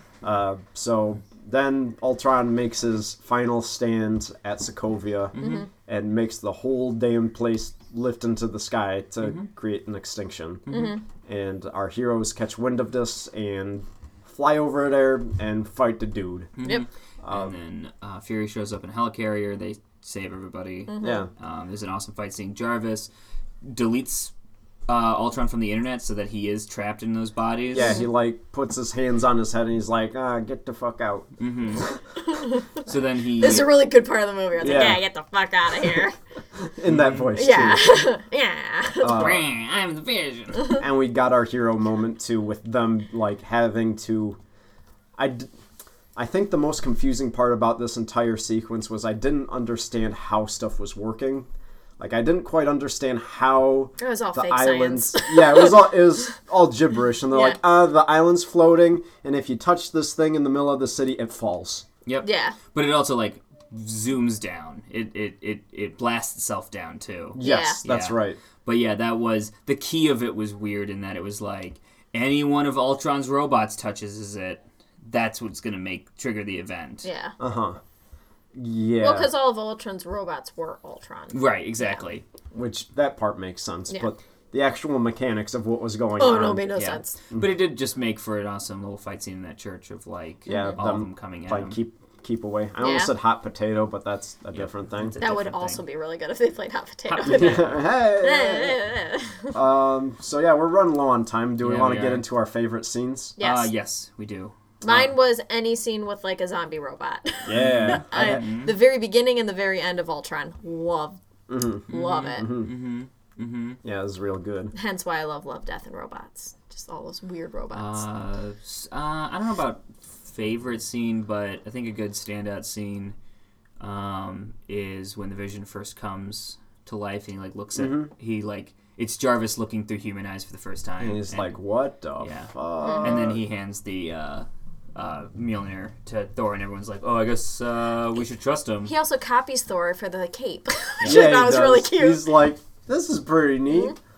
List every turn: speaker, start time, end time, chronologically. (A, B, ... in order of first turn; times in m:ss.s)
0:00.2-0:10.7 A
0:05.3-0:05.7 B
0:05.4-0:05.7 C
0:09.2-0:09.5 B
0:10.7-0:11.0 B
0:10.7-0:11.0 C
0:11.3-0:16.5 A
0:16.6-0:23.1 B
0:17.2-0:17.6 A
0:20.9-0:21.3 C
0:21.0-0:21.3 A
0:23.6-0:24.3 B
0:24.9-0:28.0 B
0:27.7-0:32.0 A
0:27.8-0:28.1 C
0:31.4-0:31.9 B
0:32.2-0:32.7 C
0:32.8-0:33.7 B
0:33.4-0:36.2 C
0:34.6-0:35.0 A
0:36.6-0:38.1 A
0:36.8-0:37.3 B
0:37.4-0:39.3 C
0:39.0-0:39.5 A
0:39.0-0:40.8 B
0:40.8-0:44.4 A
0:45.2-0:45.5 A
0:46.2-0:51.5 A
0:52.0-1:01.9 A
0:54.0-0:56.0 C
0:57.3-0:57.6 C
1:02.1-1:17.1 B
1:02.2-1:02.6 C
1:07.4-1:08.4 A
1:07.4-1:07.8 C
1:17.0-1:17.4 C
1:17.4-1:17.8 A
1:18.6-1:19.3 A
1:19.0-1:22.1 C
1:21.3-1:22.2 B
1:22.5-1:26.7 A
1:26.2-1:27.1 C
1:26.7-1:31.8 B
1:30.5-1:30.8 C
1:30.5-1:35.2 A
1:32.8-1:33.1 C
1:34.5-1:35.8 B
1:35.2-1:39.6 C
1:37.1-1:37.8 B
1:37.2-1:38.8 A
1:39.5-1:43.4 A
1:41.6-1:42.3 B
1:43.4-1:43.7 C
1:43.4-1:45.1 B
1:44.8-1:51.2 C
1:47.5-1:48.4 A
1:47.6-1:48.8 B
1:51.5-1:52.7 A
1:51.9-1:52.5 C
1:51.9-1:53.8 B
1:53.8-1:54.7 A
1:54.7-1:58.0 C
1:57.7-2:03.2 B
2:03.8-2:11.6 B
2:07.8-2:08.1 A
2:11.0-2:13.4 A
2:12.2-2:18.9 B
2:18.8-2:22.4 C
2:21.0-2:21.3 B
2:21.0-2:24.0 A
2:23.7-2:24.0 C